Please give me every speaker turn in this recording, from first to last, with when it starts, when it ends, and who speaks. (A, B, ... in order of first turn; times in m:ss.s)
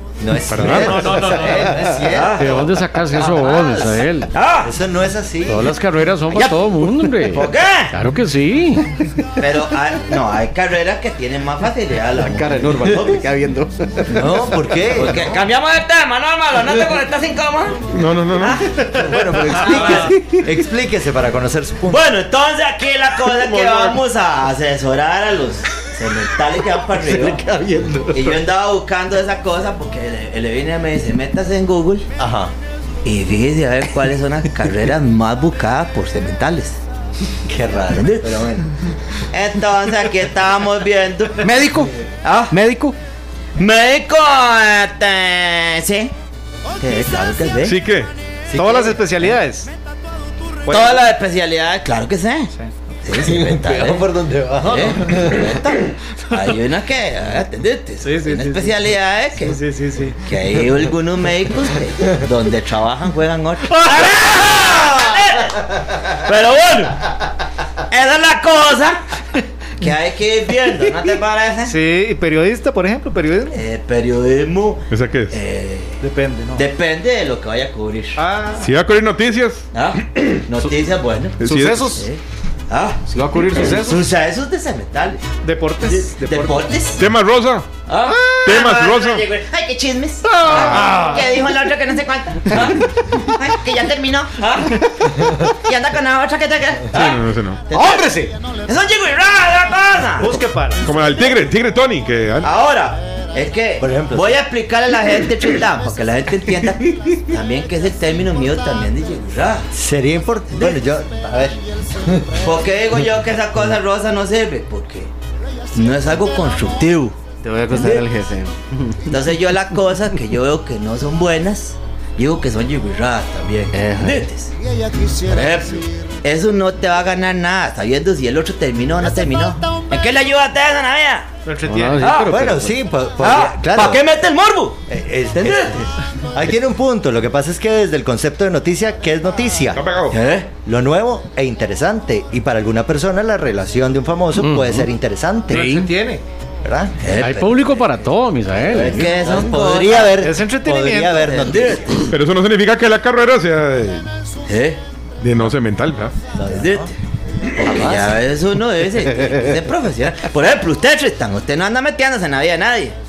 0:00.2-0:02.5 A
0:00.5-0:01.1 B
0:00.6-0:02.0 C
0:02.0-0:04.7 D
0:02.4-0:04.3 E
0:04.6-0:05.8 A
0:05.5-0:08.9 E
0:07.2-0:07.9 D
0:09.4-0:13.2 D
0:12.2-0:14.0 F
0:14.1-0:15.4 A
0:14.1-0:18.7 D
0:17.9-0:18.6 B
0:18.9-0:22.0 A
0:19.4-0:20.2 D
0:19.7-0:20.0 C
0:21.9-0:27.4 D
0:23.3-0:24.0 B
0:27.1-0:28.3 F
0:28.1-0:32.1 D
0:32.2-0:32.5 A
0:33.0-0:36.8 D
0:37.4-0:38.7 A
0:37.9-0:38.4 D
0:39.3-0:41.7 D
0:41.4-0:41.9 F
0:42.2-0:42.5 D
0:42.5-0:43.0 F
0:43.6-0:46.1 D
0:46.8-0:47.8 D
0:47.6-0:48.1 B
0:48.5-0:49.0 A
0:48.5-0:49.7 C
0:50.6-0:51.0 C
0:50.7-0:52.5 D
0:53.0-0:59.6 D
0:53.1-0:55.4 A
0:58.0-1:00.2 C
1:00.2-1:07.0 D
1:07.9-1:09.0 D
1:09.8-1:11.7 D
1:11.6-1:13.6 C
1:13.5-1:16.0 D
1:14.9-1:15.4 B
1:16.0-1:16.6 C
1:16.5-1:18.2 D
1:18.2-1:18.7 C
1:18.6-1:20.4 B
1:19.7-1:21.4 D
1:21.4-1:22.0 B
1:21.4-1:22.0 F
1:21.9-1:23.0 D
1:23.1-1:24.0 F
1:23.6-1:25.2 D
1:25.4-1:26.7 C
1:25.8-1:27.0 D
1:27.0-1:27.7 B
1:27.9-1:38.1 D
1:28.4-1:29.2 B
1:30.5-1:31.0 B
1:30.5-1:31.3 C
1:36.9-1:37.6 B
1:37.7-1:38.3 F
1:38.6-1:40.4 D
1:40.2-1:40.9 C
1:40.8-1:42.5 B
1:42.4-1:49.7 D
1:43.8-1:44.3 A
1:49.7-1:52.2 A
1:50.5-1:50.8 D
1:52.4-1:55.1 D
1:55.7-1:57.2 D
1:57.4-1:59.1 F
1:57.7-1:58.0 D
1:59.1-2:04.5 D
2:03.7-2:04.2 F
2:05.2-2:11.3 D
2:11.4-2:12.0 C
2:11.7-2:12.6 F
2:12.0-2:12.3 D
2:12.2-2:14.0 A
2:12.3-2:12.6 E
2:13.2-2:14.8 D
2:14.9-2:19.8 A
2:15.3-2:15.8 D
2:19.7-2:20.2 B
2:20.1-2:20.5 D
2:20.6-2:25.8 A
2:24.4-2:24.9 E
2:25.5-2:26.2 C
2:26.6-2:27.0 A
2:27.0-2:27.8 D
2:27.2-2:29.2 E
2:28.5-2:30.2 D
2:29.0-2:32.0 A
2:30.1-2:31.4 C
2:31.2-2:32.1 D
2:32.1-2:34.0 B
2:34.5-2:34.8 D
2:35.2-2:36.1 B
2:36.4-2:36.9 D
2:36.4-2:36.9 A
2:37.6-2:43.0 D
2:37.6-2:38.1 A